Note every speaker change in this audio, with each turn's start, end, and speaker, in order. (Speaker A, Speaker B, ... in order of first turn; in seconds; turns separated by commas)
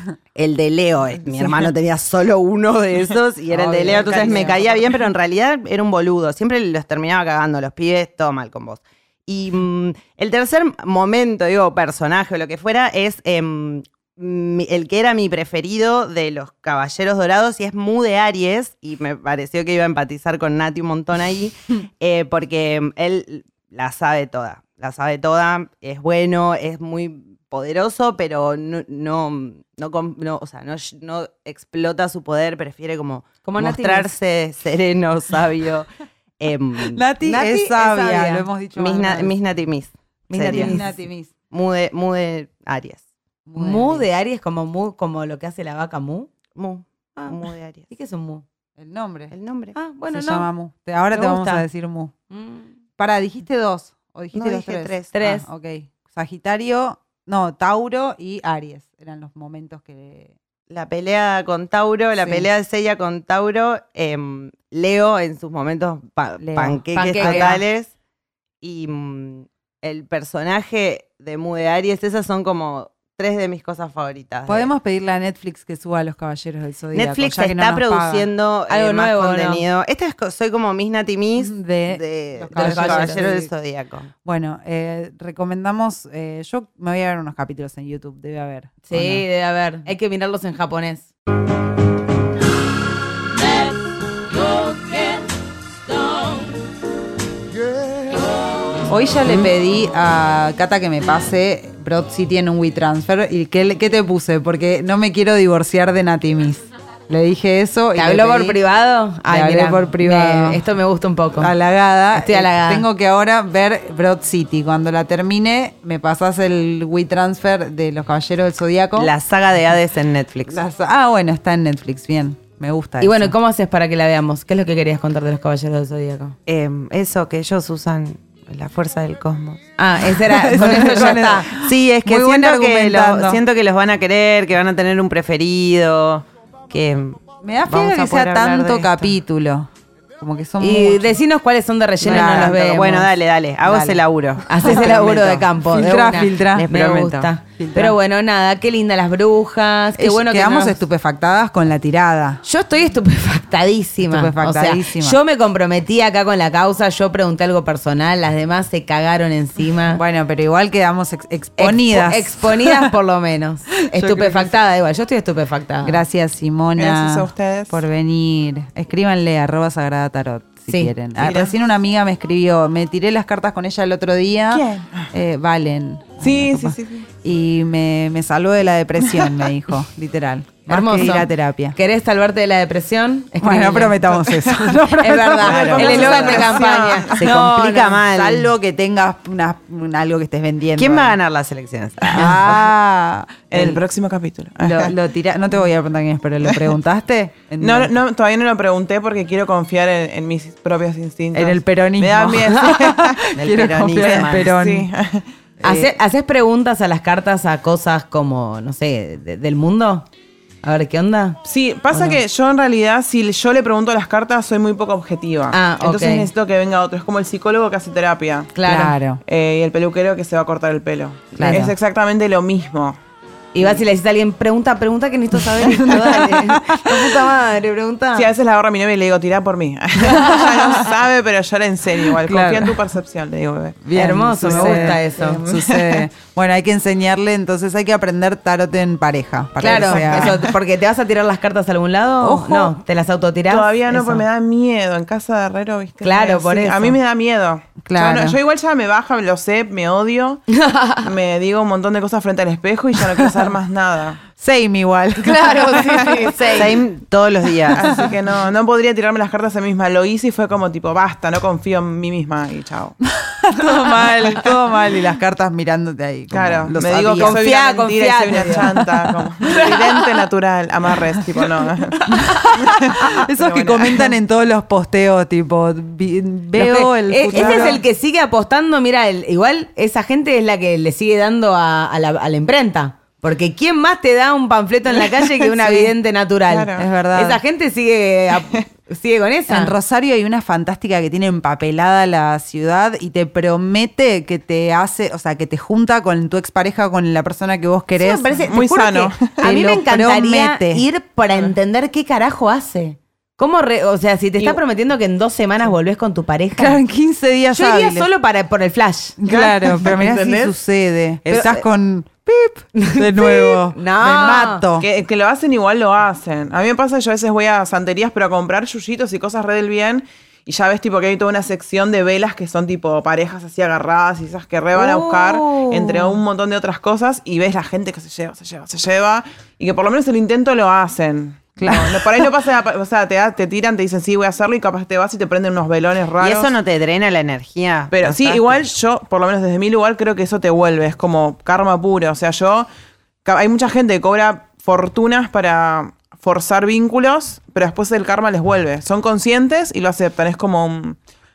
Speaker A: 0.3-35.9, Speaker B: 3.5-4.8, Speaker C: 33.4-34.1, Speaker A: 36.4-37.0, Speaker B: 36.9-39.3, Speaker C: 37.2-38.5, Speaker A: 38.8-40.8, Speaker C: 40.3-40.9, Speaker B: 40.4-41.3, Speaker A: 41.5-43.0, Speaker B: 43.5-44.0, Speaker C: 43.5-46.3, Speaker A: 46.5-47.8, Speaker C: 47.9-48.4, Speaker B: 48.8-49.3, Speaker A: 49.3-49.8, Speaker C: 49.7-50.5, Speaker B: 50.1-52.1, Speaker C: 51.1-51.6, Speaker C: 52.3-52.7, Speaker B: 53.0-60.3, Speaker A: 54.3-55.2, Speaker C: 55.1-55.5, Speaker A: 60.7-67.9, Speaker B: 62.2-62.5, Speaker B: 66.4-67.6, Speaker C: 66.9-67.6, Speaker A: 68.6-74.7, Speaker B: 74.5-78.3, Speaker A: 76.9-84.1, Speaker C: 78.7-79.6, Speaker B: 81.4-83.5, Speaker C: 82.5-83.2, Speaker B: 84.2-89.2, Speaker C: 88.9-91.1, Speaker B: 98.9-108.6, Speaker C: 107.9-111.5, Speaker B: 109.3-110.6, Speaker B: 111.4-119.1, Speaker C: 112.1-112.8, Speaker A: 119.0-120.6, Speaker B: 120.5-123.3, Speaker C: 123.0-126.3, Speaker A: 126.5-129.6, Speaker C: 129.8-131.5, Speaker B: 130.2-133.4, Speaker A: 130.8-139.1, Speaker B: 137.4-141.2, Speaker C: 140.6-143.1, Speaker B: 142.0-142.6, Speaker A: 142.0-145.4, Speaker B: 143.6-144.0, Speaker C: 144.4-150.8, Speaker B: 144.6-145.0, Speaker B: 145.6-146.7, Speaker A: 146.5-147.3, Speaker B: 147.6-147.9, Speaker B: 149.9-152.4, Speaker C: 152.4-160.0, Speaker B: 154.0-155.2, Speaker B: 159.9-162.9, Speaker C: 161.6-166.0, Speaker B: 163.9-164.6, Speaker B: 165.8-181.8, Speaker D: 166.8-167.8, Speaker D: 171.2-171.5, Speaker D: 174.5-175.1, Speaker D: 176.2-177.1, Speaker C: 180.7-184.0, Speaker B: 183.4-186.7, Speaker D: 184.2-184.8, Speaker C: 184.9-188.1, Speaker D: 185.4-187.2, Speaker A: 187.2-188.5, Speaker B: 188.0-191.2, Speaker A: 190.8-192.4, Speaker B: 192.0-193.8, Speaker D: 192.2-192.5, Speaker D: 193.5-194.9, Speaker B: 194.6-197.9, Speaker D: 197.6-203.2, Speaker B: 201.3-204.9, Speaker A: 203.3-204.5, Speaker D: 203.9-205.2, Speaker C: 205.6-210.1, Speaker B: 205.6-205.9, Speaker C: 210.6-212.2, Speaker D: 211.4-218.5, Speaker C: 215.5-216.3, Speaker C: 218.5-218.9, Speaker B: 218.7-219.2, Speaker D: 219.2-223.0, Speaker C: 221.3-221.6, Speaker B: 221.4-221.7, Speaker C: 223.5-228.3, Speaker B: 225.5-227.2, Speaker D: 228.1-233.8, Speaker C: 230.1-230.5, Speaker B: 232.2-232.8, Speaker B: 233.8-240.5, Speaker C: 233.9-235.4, Speaker D: 234.4-236.1, Speaker C: 239.6-244.2, Speaker D: 239.7-240.4, Speaker B: 242.2-242.7, Speaker D: 243.5-254.2, Speaker C: 246.0-247.0, Speaker B: 247.8-248.4, Speaker C: 250.6-251.1, Speaker B: 254.4-256.7, Speaker C: 255.2-256.8, Speaker A: 256.6-257.9, Speaker B: 257.6-258.1, Speaker D: 257.8-263.0, Speaker B: 263.3-267.4, Speaker D: 263.9-264.3, Speaker D: 266.3-274.1, Speaker C: 267.1-268.8, Speaker B: 268.5-268.8, Speaker C: 269.4-270.0, Speaker B: 272.1-277.8, Speaker C: 276.6-289.7, Speaker D: 277.3-277.8, Speaker D: 285.0-285.9, Speaker D: 286.5-286.9, Speaker B: 286.7-287.4, Speaker B: 289.5-298.5, Speaker C: 297.9-306.8, Speaker D: 298.5-299.5, Speaker B: 299.4-300.8, Speaker B: 306.6-308.1, Speaker C: 307.5-310.5, Speaker B: 309.2-314.9, Speaker C: 311.2-311.6, Speaker C: 312.7-314.6, Speaker D: 314.8-336.5, Speaker C: 324.7-326.2, Speaker B: 331.6-332.3, Speaker A: 336.2-338.7, Speaker D: 337.9-342.7, Speaker D: 343.2-351.0